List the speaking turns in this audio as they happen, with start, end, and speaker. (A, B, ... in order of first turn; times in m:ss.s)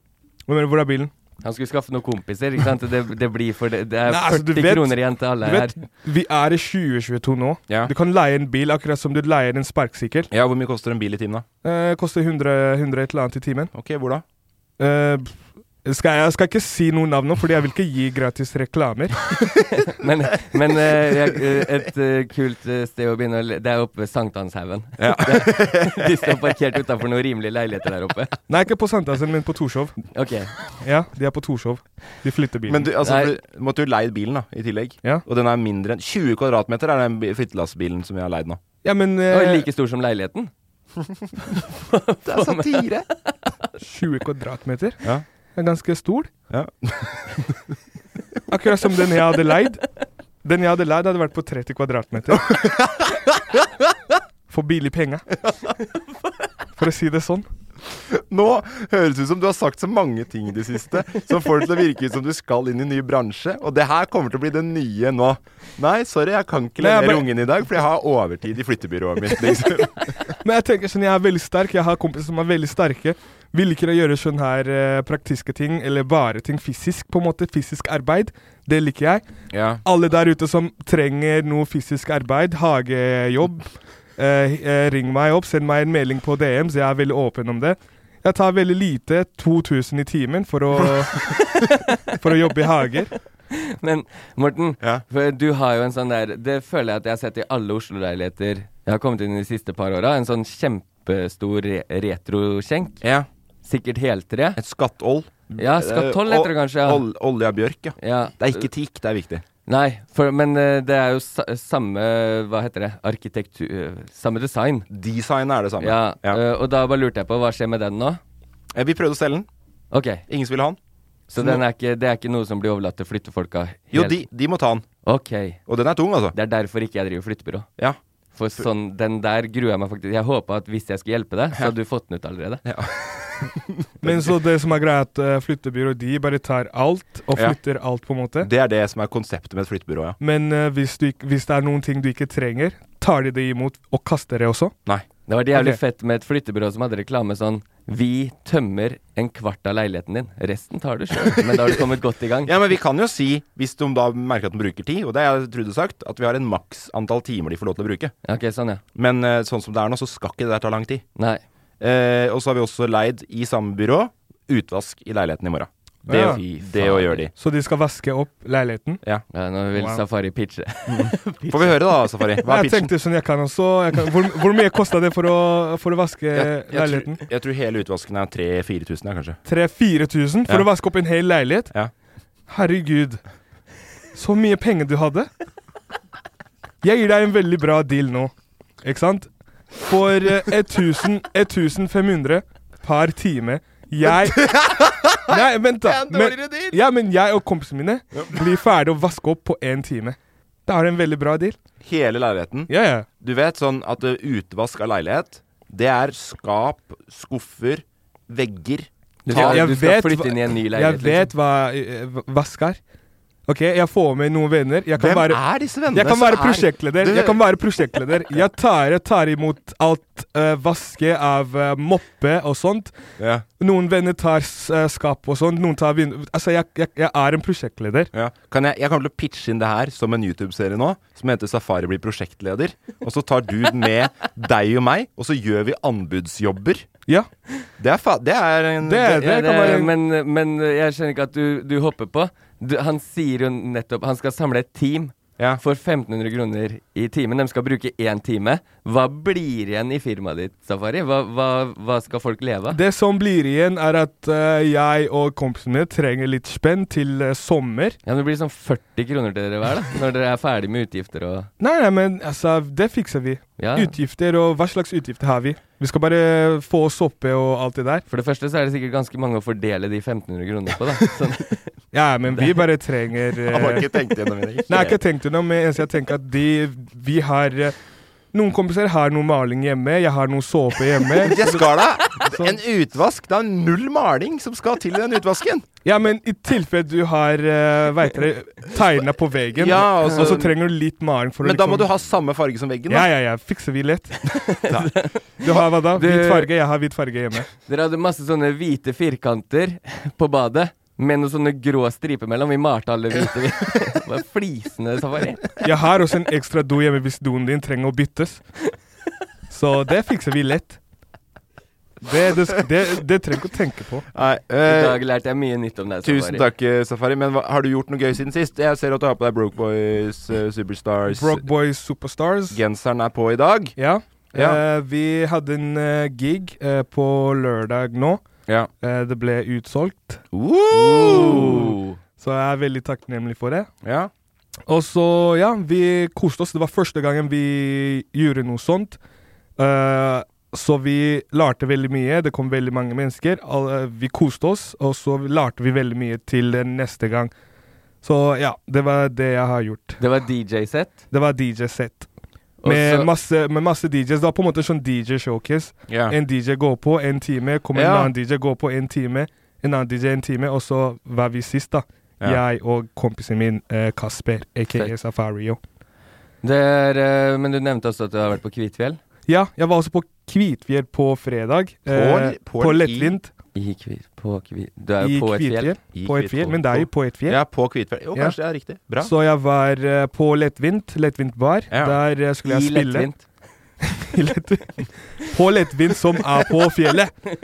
0:00.5-0:01.1 A
0:01.4-0:05.7 B
0:04.1-0:10.3 A
0:10.3-0:11.4 C
0:11.6-0:13.7 A
0:13.7-0:14.2 C
0:14.8-0:19.2 A
0:19.8-0:28.4 B
0:21.0-0:21.3 C
0:25.0-0:26.5 C
0:28.5-0:30.0 A
0:30.1-0:30.5 B
0:30.8-0:32.9 A
0:32.7-0:38.6 C
0:33.0-0:33.3 B
0:38.8-0:39.6 A
0:39.3-0:40.5 B
0:41.4-0:43.4 B
0:42.2-0:43.0 C
0:43.8-0:45.0 A
0:45.5-0:46.3 A
0:46.5-0:47.6 C
0:48.5-0:49.8 A
0:50.4-0:52.5 A
0:52.3-0:53.6 C
0:54.5-0:55.2 A
0:56.8-0:57.4 A
0:57.9-1:10.2 C
1:06.8-1:07.3 A
1:10.4-1:19.2 A
1:19.5-1:19.8 C
1:19.8-1:31.2 A
1:31.6-1:32.0 B
1:32.2-1:33.1 A
1:33.5-1:43.0 B
1:43.0-1:43.3 C
1:43.6-1:44.6 B
1:44.6-1:49.4 C
1:45.6-1:47.0 B
1:48.0-1:48.7 B
1:49.7-1:54.9 B
1:54.9-1:56.4 C
1:55.8-1:58.2 B
1:58.7-1:59.5 C
1:59.9-2:00.2 B
2:00.3-2:00.8 C
2:01.3-2:04.2 B
2:01.3-2:01.6 C
2:03.9-2:04.9 C
2:05.0-2:05.6 B
2:05.7-2:06.3 C
2:06.3-2:07.7 B
2:08.4-2:12.6 B
2:12.6-2:14.3 C
2:14.0-2:18.5 A
2:18.4-2:20.2 C
2:20.2-2:24.7 A
2:25.3-2:32.5 B
2:31.3-2:31.7 C
2:32.4-2:38.1 C
2:38.2-2:38.8 B
2:39.0-2:41.0 C
2:41.2-2:41.4 B
2:41.8-2:47.3 C
2:46.1-2:46.4 A
2:46.7-2:47.2 B
2:47.4-2:49.0 A
2:49.3-2:52.0 B
2:49.7-2:50.0 A
2:50.9-2:52.9 C
2:52.4-2:57.2 A
2:56.3-2:59.4 C
2:59.4-3:01.7 A
3:02.5-3:03.2 A
3:04.1-3:05.3 A
3:06.8-3:08.3 A
3:08.8-3:14.6 A
3:14.0-3:16.8 C
3:15.3-3:21.6 A
3:21.8-3:29.7 C
3:22.7-3:23.0 A
3:29.2-3:31.3 B
3:29.3-3:32.8 A
3:33.5-3:42.9 A
3:35.0-3:37.4 C
3:43.2-3:43.4 C
3:43.6-3:48.1 A
3:48.1-3:56.8 C
3:57.8-3:59.2 C
3:58.8-3:59.9 A
3:59.1-4:12.8 B
4:12.7-4:18.0 A
4:18.0-4:21.5 B
4:21.6-4:28.0 A
4:23.6-4:23.9 B
4:28.1-4:31.7 B
4:31.9-4:33.9 A
4:32.3-4:32.6 B
4:33.5-4:35.0 C
4:34.7-4:37.7 A
4:38.3-4:41.6 A
4:41.2-4:45.6 C
4:42.3-4:42.6 A
4:45.8-4:51.9 A
4:49.6-4:50.6 C
4:51.4-4:53.1 C
4:52.9-4:54.2 A
4:54.5-4:56.5 B
4:55.4-4:57.5 A
4:57.6-5:05.5 B
5:05.6-5:08.4 A
5:09.5-5:10.8 A
5:12.0-5:14.1 A
5:14.1-5:15.0 C
5:14.6-5:16.4 B
5:16.0-5:21.4 C
5:21.1-5:22.6 A
5:22.5-5:23.8 C
5:23.8-5:28.2 A
5:24.3-5:24.6 C
5:28.8-5:30.2 A
5:30.3-5:31.7 C
5:30.7-5:32.0 B
5:31.1-5:33.7 A
5:33.8-5:34.1 C
5:34.7-5:39.0 A
5:39.6-5:47.3 A
5:48.0-5:50.0 A
5:50.0-5:51.0 B
5:51.1-5:52.1 A
5:52.6-5:53.1 B
5:52.6-6:05.6 A
5:55.9-5:56.1 C
5:57.7-5:58.1 C
6:06.4-6:09.0 B
6:09.3-6:13.3 A
6:11.9-6:13.2 C
6:13.5-6:15.7 B
6:15.0-6:17.4 A
6:15.9-6:19.1 C
6:19.0-6:23.1 A
6:21.7-6:22.0 C
6:22.4-6:23.2 B
6:23.8-6:27.2 A